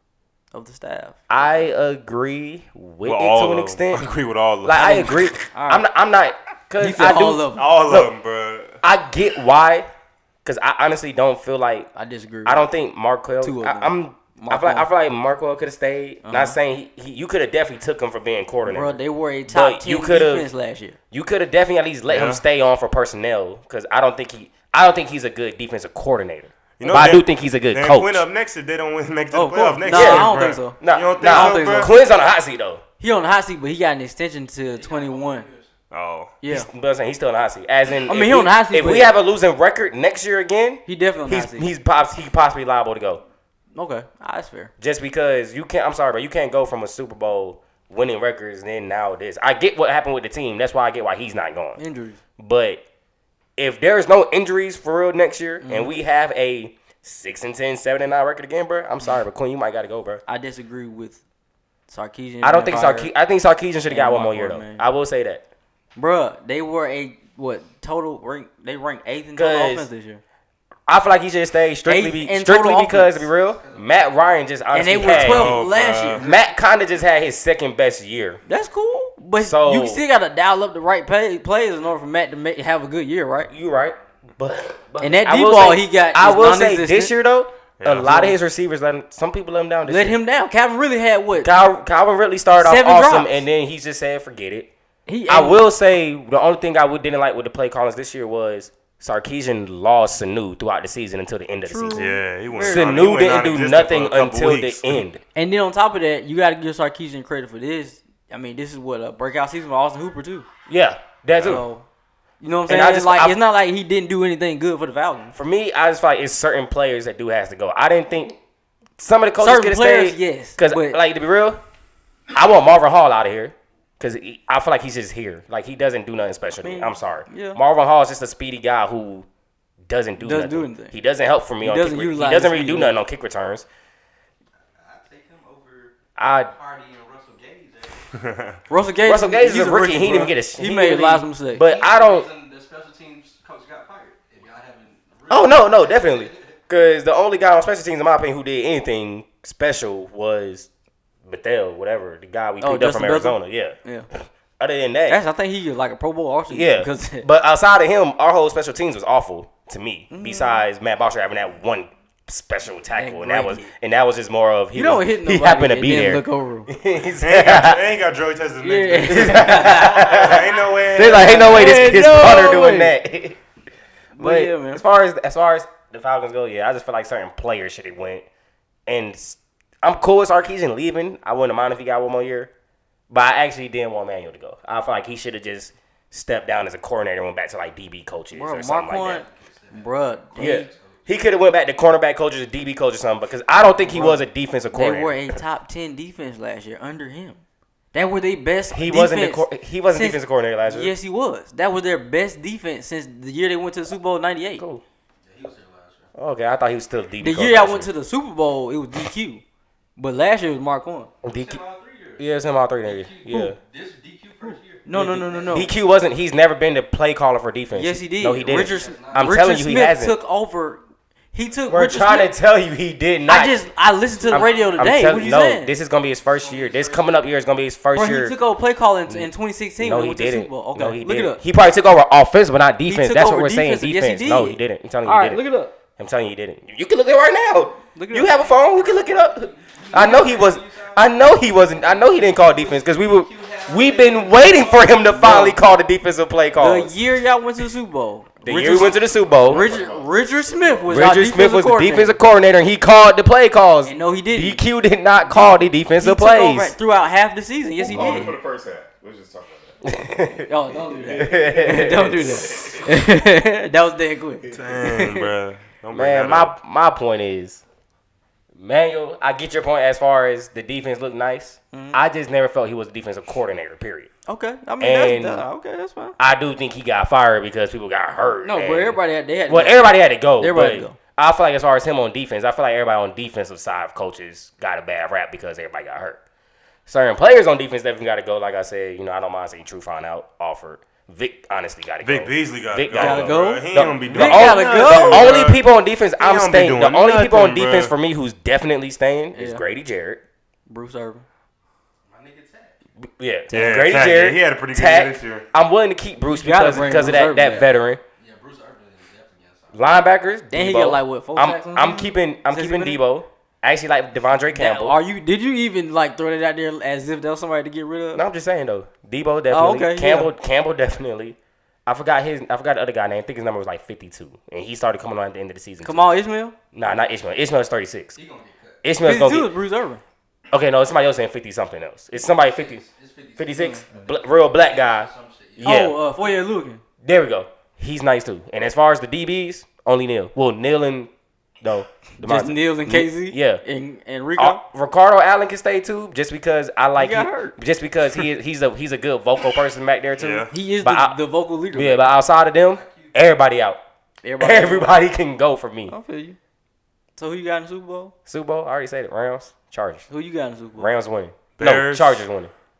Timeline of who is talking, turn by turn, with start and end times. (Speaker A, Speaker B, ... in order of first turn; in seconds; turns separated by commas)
Speaker A: 0.5-1.2, Speaker B: 1.3-4.1, Speaker C: 3.0-5.5, Speaker B: 4.6-8.1, Speaker A: 4.8-5.8, Speaker A: 6.8-7.7, Speaker C: 7.6-8.8, Speaker B: 8.8-9.9, Speaker B: 10.4-11.9, Speaker A: 11.9-12.6, Speaker B: 12.4-20.5, Speaker A: 13.4-14.9, Speaker A: 16.2-16.6, Speaker A: 18.6-21.0, Speaker B: 21.1-28.2, Speaker C: 22.1-22.4, Speaker C: 26.8-31.9, Speaker A: 29.3-31.9, Speaker B: 29.9-32.8, Speaker A: 33.0-35.5, Speaker D: 34.6-35.7, Speaker C: 35.9-36.3, Speaker A: 36.4-36.7, Speaker B: 36.5-43.2, Speaker A: 38.1-39.1, Speaker A: 40.9-41.7, Speaker A: 43.7-44.7, Speaker B: 44.8-51.8, Speaker A: 51.8-52.2, Speaker B: 52.4-52.8, Speaker B: 53.6-60.2, Speaker A: 55.6-55.9, Speaker A: 60.3-61.2, Speaker A: 61.9-63.1, Speaker B: 62.4-65.4, Speaker A: 63.9-64.8, Speaker A: 66.0-70.2, Speaker B: 69.3-69.9, Speaker B: 70.9-75.6, Speaker A: 71.8-73.3, Speaker D: 73.5-74.3, Speaker A: 74.7-76.3, Speaker C: 75.0-76.2, Speaker B: 76.2-78.4, Speaker A: 78.5-83.5, Speaker B: 79.4-80.0, Speaker B: 83.5-90.2, Speaker A: 85.0-87.1, Speaker C: 87.8-88.1, Speaker A: 88.0-88.3, Speaker A: 89.8-91.5, Speaker B: 91.4-94.7, Speaker A: 92.5-93.4, Speaker A: 95.0-95.7, Speaker B: 95.3-102.1, Speaker A: 101.7-103.2, Speaker C: 102.0-105.0, Speaker B: 102.6-105.2, Speaker A: 105.3-110.5, Speaker B: 110.7-111.6, Speaker A: 111.4-111.8, Speaker A: 112.4-115.3, Speaker B: 112.7-113.4, Speaker B: 115.3-118.3, Speaker B: 119.0-121.6, Speaker A: 119.4-121.0, Speaker B: 122.3-129.3, Speaker A: 126.6-127.6, Speaker B: 129.9-133.7, Speaker A: 130.2-130.9, Speaker A: 131.6-133.0, Speaker D: 134.7-135.9, Speaker B: 136.2-136.5, Speaker D: 136.5-138.1, Speaker C: 138.2-138.5, Speaker A: 138.7-141.7, Speaker B: 139.0-142.3, Speaker D: 141.6-146.6, Speaker B: 145.3-150.7, Speaker B: 151.2-155.2, Speaker A: 152.6-154.1, Speaker A: 155.1-157.3, Speaker B: 156.5-167.9, Speaker A: 160.1-160.6, Speaker A: 162.9-163.7, Speaker A: 164.7-166.7, Speaker C: 167.2-171.8, Speaker A: 168.6-170.2, Speaker B: 169.0-173.4, Speaker A: 171.0-172.9, Speaker A: 174.1-174.8, Speaker B: 174.2-178.2, Speaker B: 178.9-182.5, Speaker B: 183.1-189.2, Speaker A: 188.3-190.7, Speaker D: 189.0-191.2, Speaker B: 190.4-195.4, Speaker A: 193.9-194.2, Speaker A: 194.7-197.4, Speaker A: 197.9-204.6, Speaker B: 198.7-200.9, Speaker B: 204.6-204.8, Speaker D: 205.2-206.1, Speaker B: 206.2-207.9, Speaker A: 207.2-209.4, Speaker A: 210.0-211.1, Speaker B: 211.2-211.6, Speaker D: 211.2-215.8, Speaker B: 212.2-213.6, Speaker A: 214.4-215.7, Speaker B: 215.0-220.2, Speaker A: 217.7-220.8, Speaker D: 218.4-219.4, Speaker A: 221.3-222.3, Speaker B: 221.7-223.6, Speaker A: 223.3-225.7, Speaker D: 224.1-225.2, Speaker B: 224.3-228.3, Speaker D: 226.2-227.4, Speaker A: 227.9-231.4, Speaker B: 229.1-235.4, Speaker A: 232.8-235.7, Speaker B: 236.0-247.0, Speaker A: 237.9-238.3, Speaker D: 238.2-245.2, Speaker A: 245.1-245.6, Speaker A: 246.6-252.2, Speaker B: 248.4-249.7, Speaker E: 249.3-250.9, Speaker B: 250.9-256.8, Speaker A: 253.8-254.6, Speaker A: 255.3-258.3, Speaker E: 257.8-260.0, Speaker B: 257.9-258.3, Speaker B: 259.8-260.5, Speaker A: 260.5-265.3, Speaker E: 260.7-262.9, Speaker B: 261.1-262.3, Speaker C: 264.5-266.5, Speaker B: 265.9-267.6, Speaker B: 268.6-274.1, Speaker A: 271.7-272.0, Speaker A: 274.3-276.2, Speaker B: 274.8-275.4, Speaker B: 276.2-286.2, Speaker A: 278.4-281.0, Speaker B: 286.9-300.2, Speaker C: 292.0-295.6, Speaker A: 292.9-295.4, Speaker C: 296.2-297.9, Speaker A: 299.3-299.6, Speaker A: 300.7-301.2, Speaker D: 302.0-302.8, Speaker B: 303.0-308.0, Speaker C: 303.5-305.4, Speaker A: 306.3-307.7, Speaker D: 308.2-310.0, Speaker B: 309.7-315.0, Speaker A: 310.5-313.0, Speaker A: 314.5-318.2, Speaker B: 318.1-326.2, Speaker A: 319.5-320.3, Speaker A: 325.8-326.5, Speaker B: 326.7-328.2, Speaker D: 328.1-328.8, Speaker B: 328.8-329.5, Speaker A: 329.0-330.0, Speaker B: 330.5-332.8, Speaker D: 332.2-336.3, Speaker B: 333.4-336.0, Speaker A: 335.6-336.8, Speaker B: 337.0-341.1, Speaker B: 341.6-343.6, Speaker A: 342.2-344.6, Speaker B: 344.4-351.2, Speaker A: 347.0-347.6, Speaker C: 350.2-350.5, Speaker A: 350.5-352.1, Speaker B: 351.7-353.8, Speaker D: 352.6-353.1, Speaker A: 354.2-354.9, Speaker B: 354.4-355.9, Speaker A: 355.9-356.4, Speaker A: 357.2-358.1, Speaker B: 358.3-360.1, Speaker A: 360.1-360.9, Speaker B: 360.8-362.5, Speaker C: 361.6-362.2